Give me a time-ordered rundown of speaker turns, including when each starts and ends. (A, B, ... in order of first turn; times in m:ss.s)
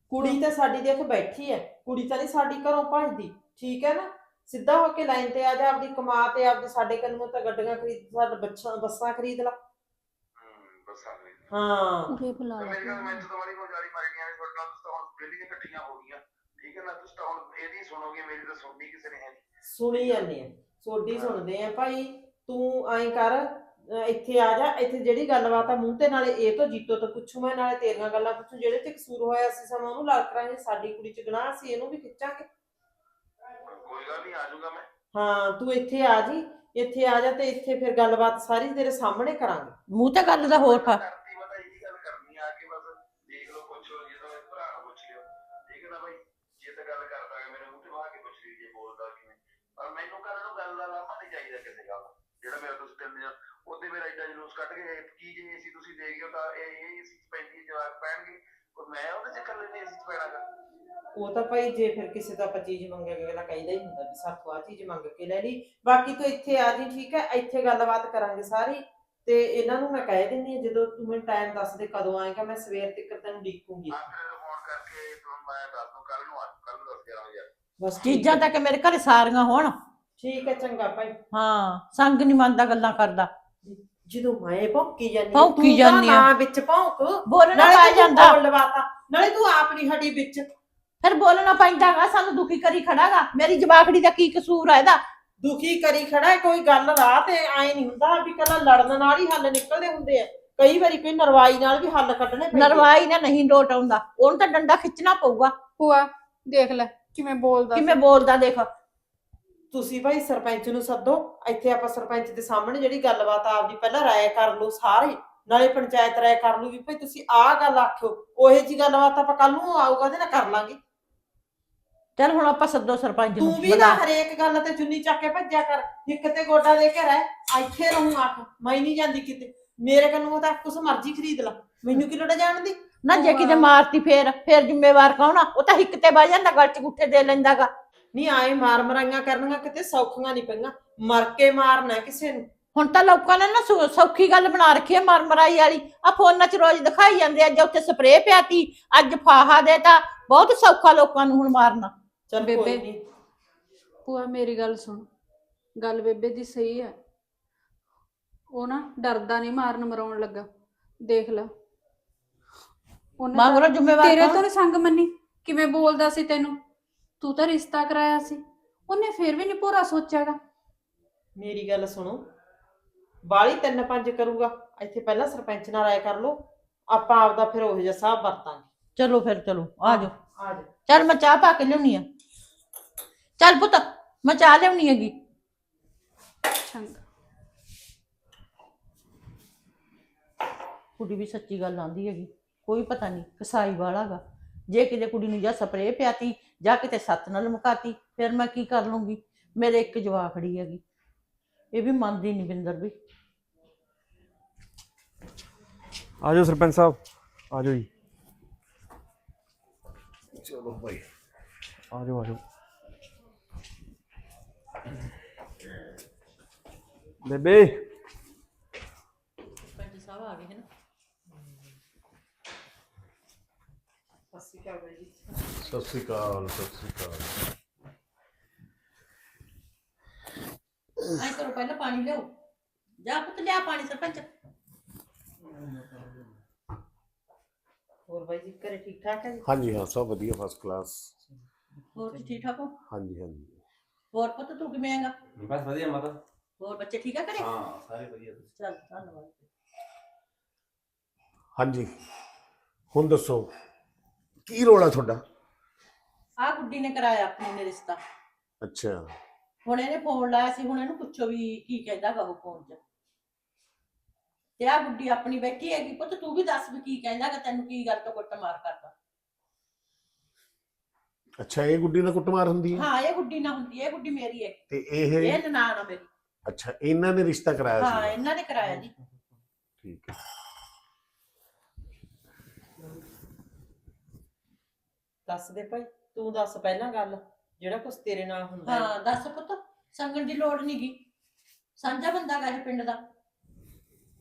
0:00.1-0:09.6 A
0:10.4-0:11.5 B
0:11.5-0:12.2 A
0:12.1-0:13.3 C
0:12.6-0:19.4 B
0:19.7-0:32.5 A
0:19.9-0:20.3 B
0:21.1-0:21.4 B
0:33.6-0:34.9 B
0:35.1-0:39.8 A
0:39.9-0:41.0 D
0:40.4-1:00.4 B
1:01.2-1:14.0 A
1:13.9-1:17.5 B
1:17.8-1:18.4 A
1:18.0-1:19.7 D
1:20.2-1:21.2 A
1:21.3-1:23.3 D
1:23.6-1:30.5 A
1:25.3-1:26.3 D
1:27.3-1:28.4 D
1:31.0-1:35.0 D
1:35.4-1:42.9 A
1:42.5-1:45.6 D
1:45.8-1:48.0 C
1:47.7-1:48.7 D
1:49.7-2:00.8 A
2:02.2-2:04.0 D
2:03.4-2:12.8 A
2:13.0-2:17.7 D
2:13.1-2:13.7 C
2:18.1-2:22.5 A
2:22.8-2:31.9 D
2:32.3-2:33.0 A
2:32.4-2:32.8 C
2:34.0-2:35.0 C
2:35.8-2:37.0 C
2:38.6-2:40.5 C
2:41.0-2:41.5 C
2:43.2-2:46.6 C
2:43.3-2:44.4 D
2:47.2-2:50.4 C
2:51.4-2:52.2 A
2:53.2-2:58.7 A
2:59.0-3:00.1 D
3:00.4-3:00.7 A
3:00.9-3:02.1 D
3:03.4-3:05.1 D
3:06.5-3:07.0 C
3:11.0-3:20.8 D
3:21.7-3:22.9 D
3:26.2-3:27.0 E
3:27.5-3:27.9 E
3:30.3-3:31.1 F
3:31.9-3:32.4 E
3:37.2-3:37.8 E
3:39.6-3:40.7 D
3:41.3-3:41.8 A
3:44.3-3:45.5 A
3:45.6-3:47.3 F
3:51.2-3:52.3 D
3:53.0-3:54.3 D
3:55.4-3:56.3 E
3:58.1-3:59.5 A
3:59.4-4:01.1 F
4:01.9-4:02.8 D
4:02.0-4:02.3 A
4:02.9-4:03.6 F
4:04.1-4:05.2 D
4:05.4-4:06.2 G
4:06.6-4:07.5 D
4:07.4-4:08.5 G
4:08.6-4:09.5 D
4:11.6-4:12.0 F
4:12.9-4:13.5 F
4:14.5-4:15.2 F
4:16.4-4:18.0 D
4:18.6-4:19.1 F
4:19.6-4:22.8 D
4:24.6-4:28.9 D
4:31.4-4:32.8 F
4:32.7-4:34.6 D
4:34.7-4:35.4 F
4:35.2-4:36.1 D
4:36.5-4:38.2 F
4:37.8-4:38.9 D
4:39.8-4:40.2 F
4:45.3-4:48.9 A
4:48.6-4:51.0 D
4:51.8-4:53.0 D